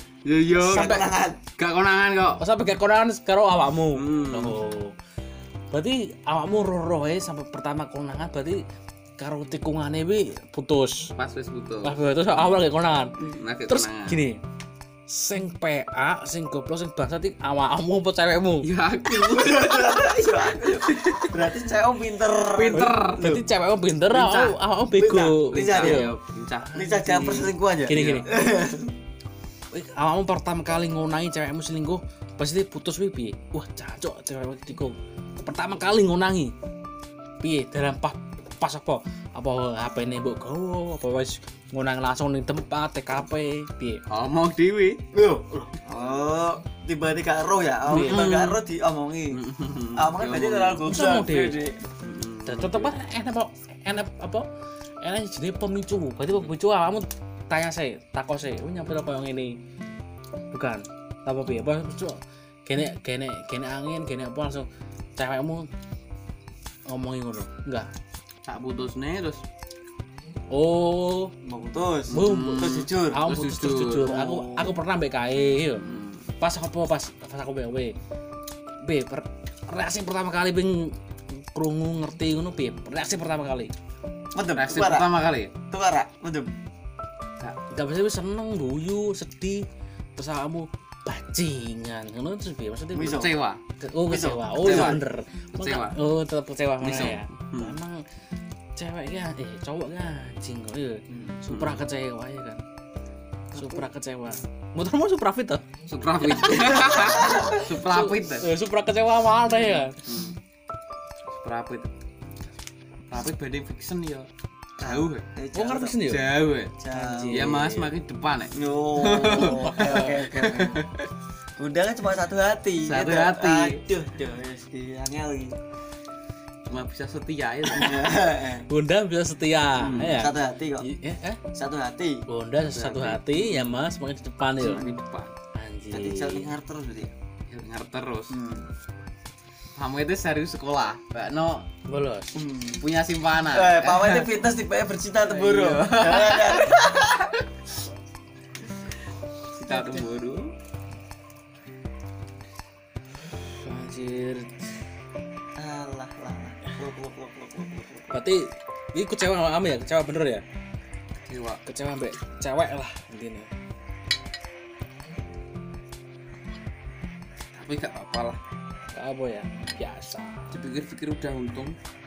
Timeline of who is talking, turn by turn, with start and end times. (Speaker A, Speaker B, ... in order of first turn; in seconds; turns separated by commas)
Speaker A: 0.2-1.1, Speaker B: 0.6-1.1, Speaker C: 0.6-1.4, Speaker A: 1.6-2.4, Speaker B: 2.4-4.9, Speaker A: 3.9-4.6, Speaker B: 5.7-8.6, Speaker B: 9.2-11.1, Speaker A: 11.2-12.6, Speaker B: 11.8-14.4, Speaker A: 13.2-14.3, Speaker B: 15.1-18.7, Speaker A: 18.6-21.3, Speaker C: 19.2-23.5, Speaker A: 22.5-23.3, Speaker B: 22.7-26.1, Speaker A: 24.1-24.6, Speaker C: 24.9-26.1, Speaker A: 25.5-28.2, Speaker C: 26.7-28.9, Speaker B: 27.9-28.3, Speaker B: 29.7-36.5, Speaker B: 37.4-44.0, Speaker A: 44.1-45.0, Speaker C: 45.1-49.4, Speaker B: 47.9-48.3, Speaker A: 47.9-48.6, Speaker A: 49.3-50.9, Speaker C: 50.0-51.8, Speaker B: 50.9-51.6, Speaker A: 52.0-53.0, Speaker B: 52.5-54.5, Speaker B: 55.0-59.5, Speaker B: 60.5-65.7, Speaker B: 66.9-67.9, Speaker A: 68.5-69.5, Speaker B: 70.5-71.3, Speaker C: 71.4-73.2, Speaker A: 72.1-74.3, Speaker B: 72.1-75.8, Speaker C: 74.0-74.8, Speaker A: 75.8-76.3, Speaker B: 76.4-78.0, Speaker B: 78.8-83.7, Speaker C: 84.3-85.1, Speaker A: 84.5-85.5, Speaker C: 85.7-86.5, Speaker B: 87.7-98.0, Speaker C: 92.9-93.4, Speaker A: 93.1-93.6, Speaker C: 94.1-95.0, Speaker A: 94.6-95.0, Speaker A: 95.6-96.0, Speaker A: 96.8-97.8, Speaker B: 98.8-102.6, Speaker C: 101.1-101.4, Speaker A: 101.5-101.8, Speaker C: 103.5-103.9, Speaker B: 103.5-105.7, Speaker A: 105.9-108.5, Speaker B: 106.2-110.0, Speaker C: 106.9-107.6, Speaker A: 109.9-110.4, Speaker A: 111.4-111.9, Speaker A: 113.1-114.3, Speaker C: 114.8-116.0, Speaker A: 114.8-115.3, Speaker B: 115.5-116.4, Speaker A: 116.0-116.8, Speaker C: 116.8-117.6, Speaker B: 116.9-117.9, Speaker A: 117.3-121.1, Speaker C: 118.5-120.8, Speaker B: 119.6-120.2, Speaker C: 121.6-125.6, Speaker A: 122.8-123.8, Speaker A: 126.7-128.1, Speaker C: 127.7-128.7, Speaker B: 128.7-131.4, Speaker A: 129.8-130.2, Speaker C: 129.9-130.9, Speaker C: 131.5-132.2, Speaker B: 132.3-134.9, Speaker A: 132.7-133.8, Speaker A: 134.6-135.3, Speaker B: 135.5-136.5, Speaker C: 135.9-137.1, Speaker A: 137.5-138.4, Speaker C: 138.3-138.7, Speaker A: 139.8-141.7, Speaker B: 141.9-142.3, Speaker C: 142.3-142.8, Speaker A: 142.8-144.3, Speaker C: 143.5-147.3, Speaker A: 145.2-146.8, Speaker A: 149.6-150.6, Speaker C: 149.7-150.0, Speaker B: 153.2-154.6, Speaker C: 155.6-158.2, Speaker B: 158.1-160.4, Speaker A: 161.3-161.6, Speaker B: 161.7-163.5, Speaker A: 167.5-168.4, Speaker B: 168.9-170.5, Speaker A: 170.5-171.8